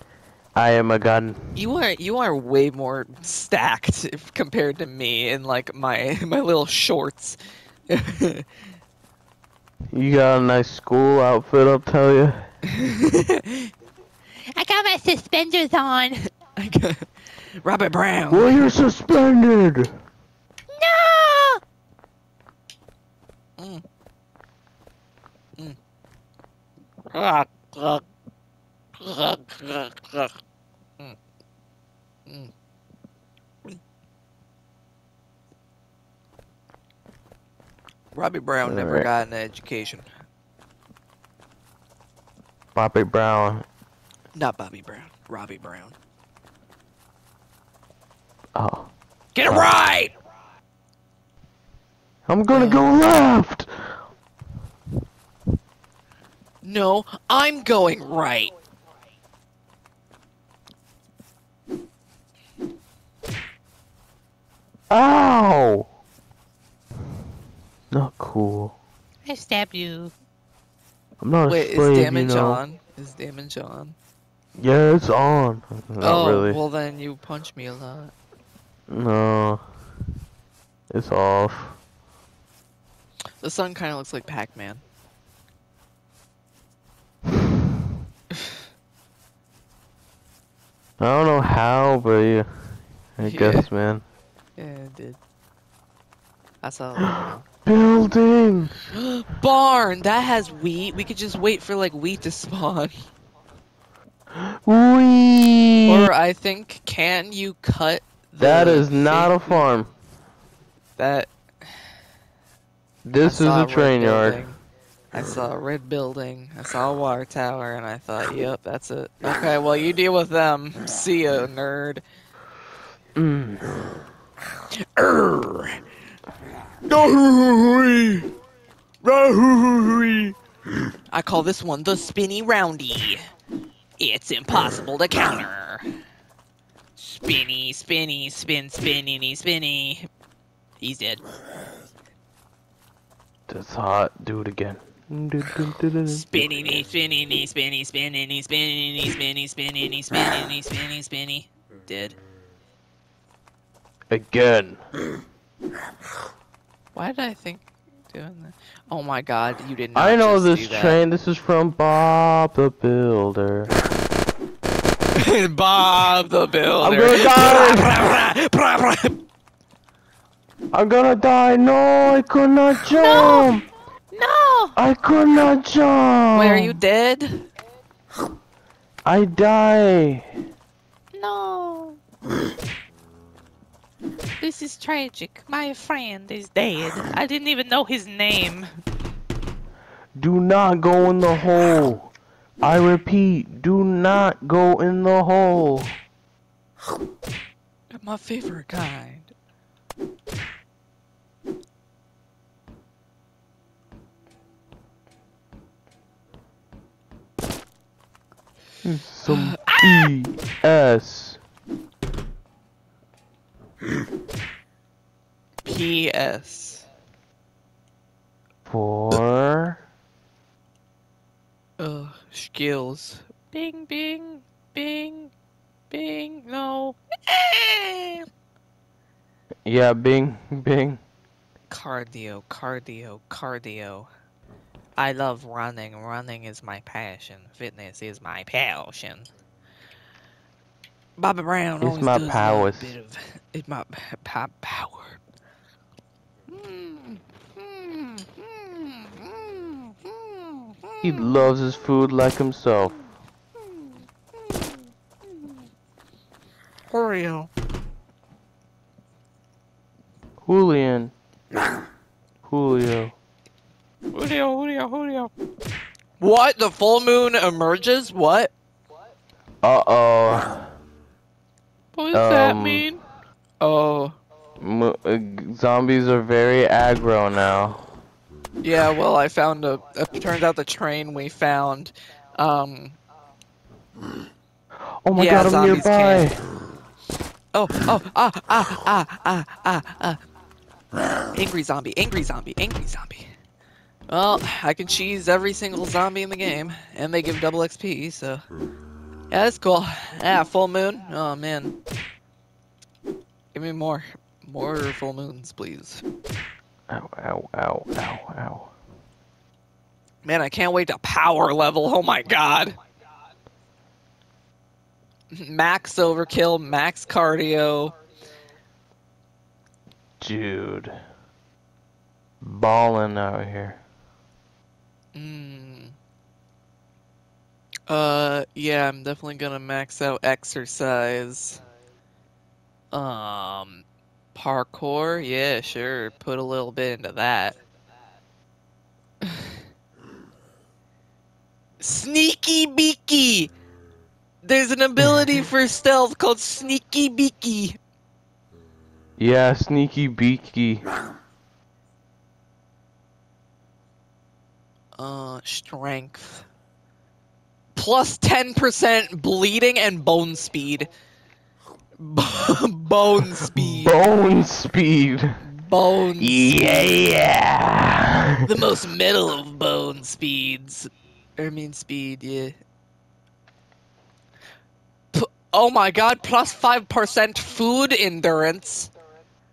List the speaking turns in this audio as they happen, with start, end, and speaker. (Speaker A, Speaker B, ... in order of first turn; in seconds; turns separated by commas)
Speaker A: 0.6-1.6, Speaker B: 1.6-8.5, Speaker A: 9.9-12.5, Speaker B: 12.7-13.7, Speaker C: 14.5-16.3, Speaker B: 16.6-18.6, Speaker A: 18.3-19.9, Speaker C: 20.8-21.6, Speaker B: 23.6-23.8, Speaker B: 27.1-28.0, Speaker B: 28.9-30.3, Speaker B: 32.2-32.5, Speaker B: 38.1-40.1, Speaker A: 38.6-39.1, Speaker A: 42.7-43.7, Speaker B: 44.3-46.0, Speaker A: 48.5-48.9, Speaker B: 49.3-50.1, Speaker A: 49.4-49.8, Speaker A: 52.3-54.0, Speaker B: 52.5-52.9, Speaker B: 56.6-58.5, Speaker A: 64.9-65.9, Speaker A: 67.9-68.7, Speaker C: 69.2-70.1, Speaker A: 71.2-72.6, Speaker B: 71.5-74.0, Speaker A: 74.6-76.6, Speaker B: 76.0-78.1, Speaker A: 78.9-79.6, Speaker A: 80.9-81.8, Speaker B: 83.4-84.8, Speaker A: 91.0-92.5, Speaker A: 93.2-94.0, Speaker B: 93.2-93.7, Speaker B: 94.5-95.2, Speaker B: 96.6-97.4, Speaker A: 97.0-98.8, Speaker B: 98.9-102.9, Speaker A: 104.3-106.1, Speaker B: 105.9-109.6, Speaker A: 108.4-109.9, Speaker B: 111.0-111.8, Speaker A: 113.0-114.4, Speaker B: 113.2-114.6, Speaker B: 115.1-122.0, Speaker A: 123.2-123.7, Speaker B: 124.7-125.8, Speaker B: 126.9-128.3, Speaker B: 129.0-130.3, Speaker B: 131.1-133.2, Speaker B: 134.0-135.8, Speaker B: 137.0-140.1, Speaker B: 140.8-141.2, Speaker A: 143.5-146.8, Speaker B: 146.1-152.2, Speaker A: 154.1-154.8, Speaker B: 156.9-161.0, Speaker A: 159.9-163.7, Speaker B: 165.1-169.2, Speaker A: 166.8-168.1, Speaker A: 170.7-173.7, Speaker C: 173.0-173.5, Speaker C: 174.1-174.7, Speaker A: 174.8-176.8, Speaker B: 176.3-177.4, Speaker A: 179.0-180.3, Speaker C: 181.1-182.0, Speaker C: 184.4-188.7, Speaker A: 190.2-192.1, Speaker A: 192.6-196.0, Speaker B: 197.9-199.3, Speaker A: 208.8-211.4, Speaker B: 209.3-210.1, Speaker B: 215.6-216.8, Speaker A: 218.7-219.8, Speaker B: 221.8-225.3, Speaker C: 223.9-224.8, Speaker B: 225.9-228.3, Speaker C: 226.0-226.5, Speaker A: 229.7-231.0, Speaker B: 231.7-234.1, Speaker B: 235.0-239.3, Speaker C: 236.3-236.8, Speaker B: 241.2-245.2, Speaker A: 241.8-242.9, Speaker B: 246.5-251.4, Speaker A: 251.0-252.9, Speaker B: 256.9-257.5, Speaker A: 260.4-261.1, Speaker A: 262.4-263.1, Speaker C: 264.1-265.3, Speaker B: 266.2-268.5, Speaker A: 269.6-270.6, Speaker B: 271.9-273.0, Speaker A: 272.1-272.9, Speaker B: 273.6-274.2, Speaker A: 274.6-277.8, Speaker B: 278.6-283.0, Speaker A: 285.0-286.4, Speaker B: 285.1-286.3, Speaker B: 287.5-290.2, Speaker B: 291.3-293.3, Speaker B: 294.1-298.4, Speaker B: 299.3-301.7, Speaker B: 303.5-306.0, Speaker A: 306.9-308.7, Speaker B: 310.2-312.8, Speaker B: 315.3-317.9, Speaker A: 320.2-320.9, Speaker A: 322.4-323.8, Speaker B: 325.1-325.9, Speaker B: 327.9-331.6, Speaker B: 332.9-337.6, Speaker B: 339.2-339.6, Speaker B: 341.8-343.5, Speaker B: 344.4-347.8, Speaker A: 349.2-350.9, Speaker B: 355.0-356.4, Speaker B: 357.8-360.9, Speaker B: 362.0-364.1, Speaker A: 363.4-365.4, Speaker B: 365.4-367.0, Speaker A: 366.2-368.5, Speaker B: 368.4-372.6, Speaker B: 375.1-378.9